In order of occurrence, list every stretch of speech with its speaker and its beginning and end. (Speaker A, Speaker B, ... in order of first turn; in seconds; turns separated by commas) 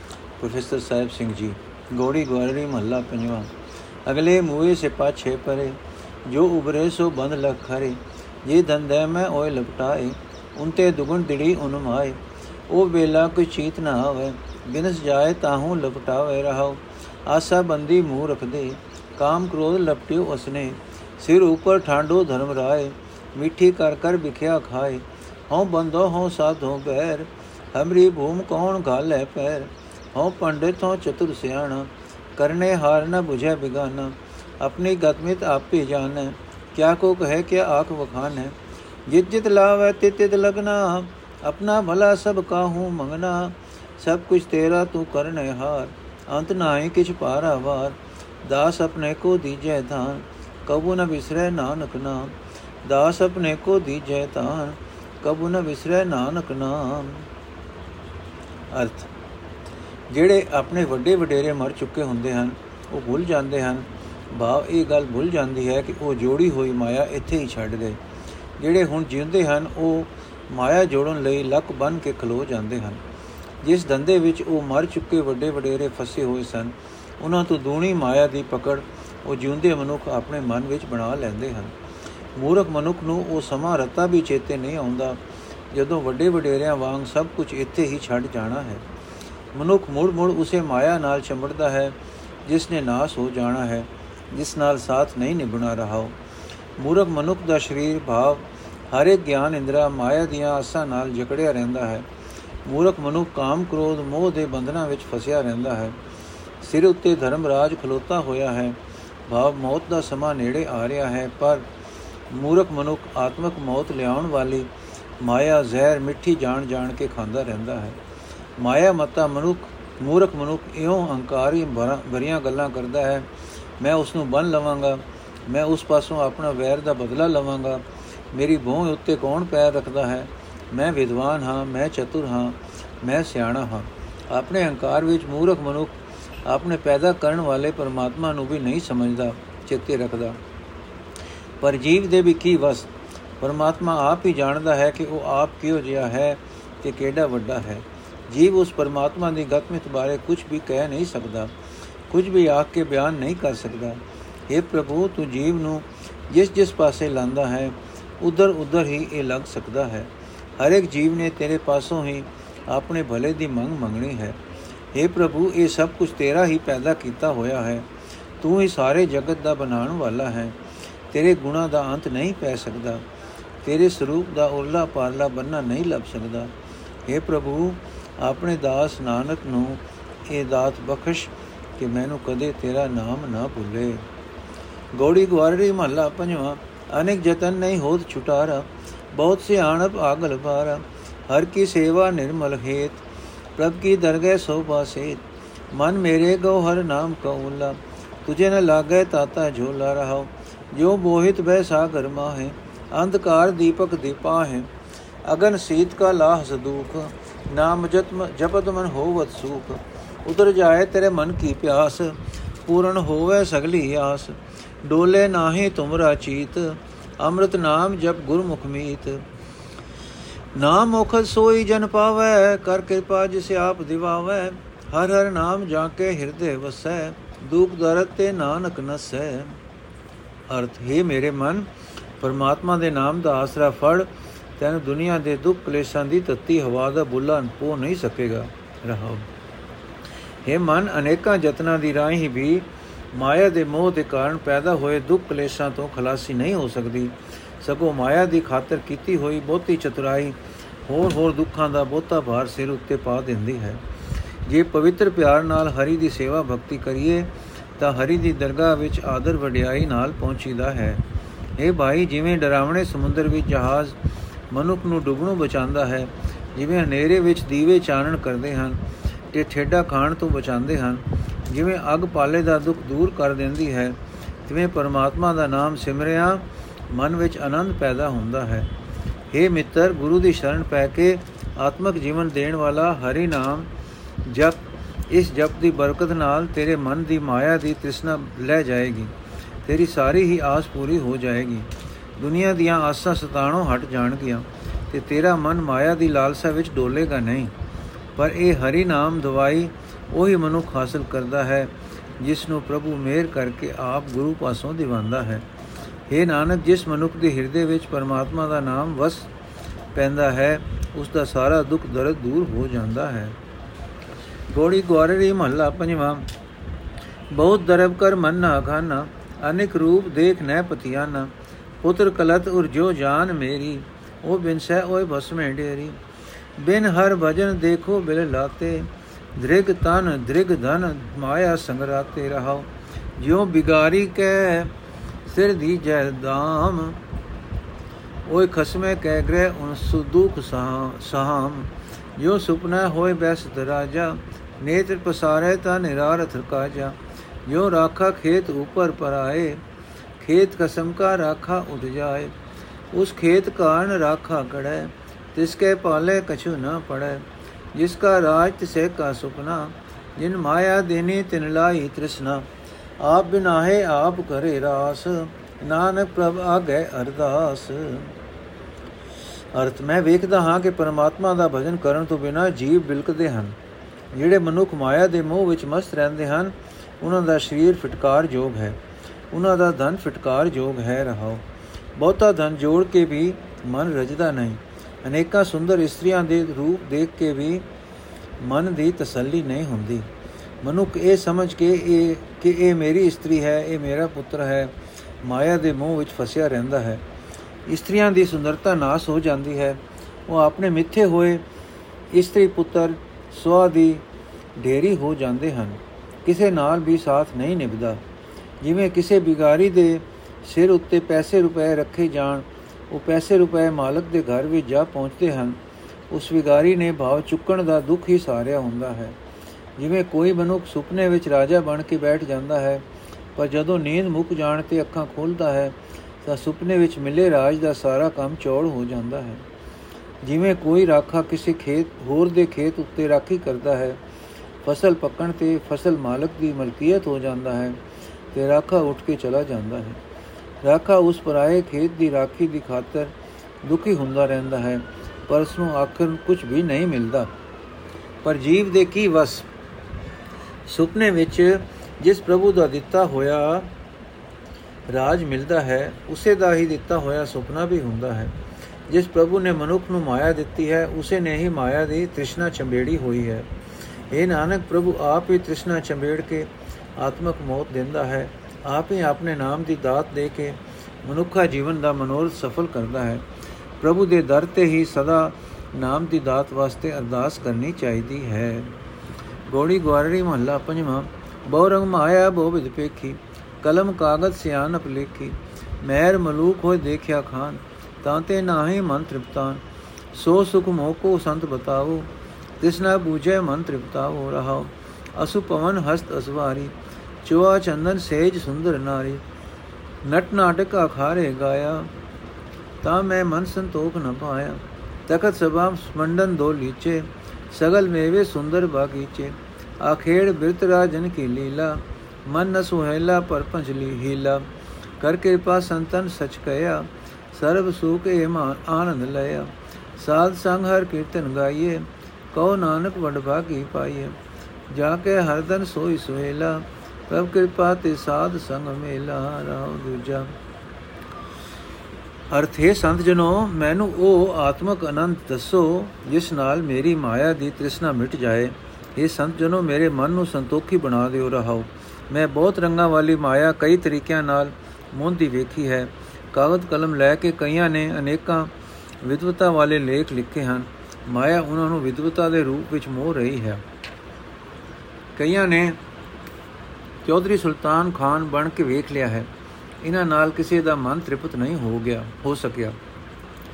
Speaker A: 0.4-3.5, Speaker A: 4.0-38.6, Speaker A: 39.1-57.3, Speaker A: 58.7-59.1, Speaker A: 60.1-68.0, Speaker A: 68.6-73.0, Speaker A: 73.6-81.8, Speaker A: 82.4-85.2, Speaker A: 85.7-88.8, Speaker A: 89.5-96.2, Speaker A: 96.8-102.1, Speaker A: 102.7-106.0, Speaker A: 106.6-111.7, Speaker A: 112.3-114.7, Speaker A: 115.2-118.0, Speaker A: 118.6-123.3, Speaker A: 123.8-140.4, Speaker A: 141.6-142.9, Speaker A: 143.4-151.5, Speaker A: 152.1-164.4, Speaker A: 164.9-167.9, Speaker A: 168.4-170.6, Speaker A: 171.1-173.1, Speaker A: 173.6-176.5, Speaker A: 177.1-184.0, Speaker A: 184.9-193.0, Speaker A: 193.6-204.7, Speaker A: 205.2-219.2, Speaker A: 220.6-229.6, Speaker A: 230.5-239.3, Speaker A: 240.4-250.4, Speaker A: 250.9-253.8, Speaker A: 254.5-261.0, Speaker A: 261.6-264.0, Speaker A: 264.5-268.8, Speaker A: 269.3-278.7, Speaker A: 279.3-283.7, Speaker A: 284.2-289.1, Speaker A: 289.6-297.5, Speaker A: 298.2-305.5, Speaker A: 306.1-309.3, Speaker A: 309.9-313.4, Speaker A: 314.5-316.3, Speaker A: 317.3-326.0, Speaker A: 326.6-334.7, Speaker A: 335.3-337.0, Speaker A: 338.3-349.6, Speaker A: 350.2-352.3, Speaker A: 352.9-362.5, Speaker A: 363.0-368.2, Speaker A: 369.5-373.6, Speaker A: 374.1-378.8, Speaker A: 379.3-381.4, Speaker A: 382.0-387.6, Speaker A: 388.4-390.1, Speaker A: 390.6-397.0, Speaker A: 397.7-401.4, Speaker A: 402.1-404.0, Speaker A: 404.6-408.0, Speaker A: 408.6-415.6, Speaker A: 416.1-419.2, Speaker A: 419.8-422.8, Speaker A: 423.4-429.4, Speaker A: 430.2-434.0, Speaker A: 434.6-437.8, Speaker A: 438.3-440.0, Speaker A: 440.6-447.3, Speaker A: 448.2-449.5, Speaker A: 450.7-453.7, Speaker A: 454.9-458.3, Speaker A: 458.9-463.5, Speaker A: 464.1-473.2, Speaker A: 473.8-478.7, Speaker A: 479.5-489.6, Speaker A: 490.1-499.2, Speaker A: 500.0-501.9, Speaker A: 502.8-514.5, Speaker A: 515.0-524.1, Speaker A: 524.7-530.3, Speaker A: 532.3-553.6, Speaker A: 555.2-555.8, Speaker A: 557.0-559.3, Speaker A: 559.8-562.8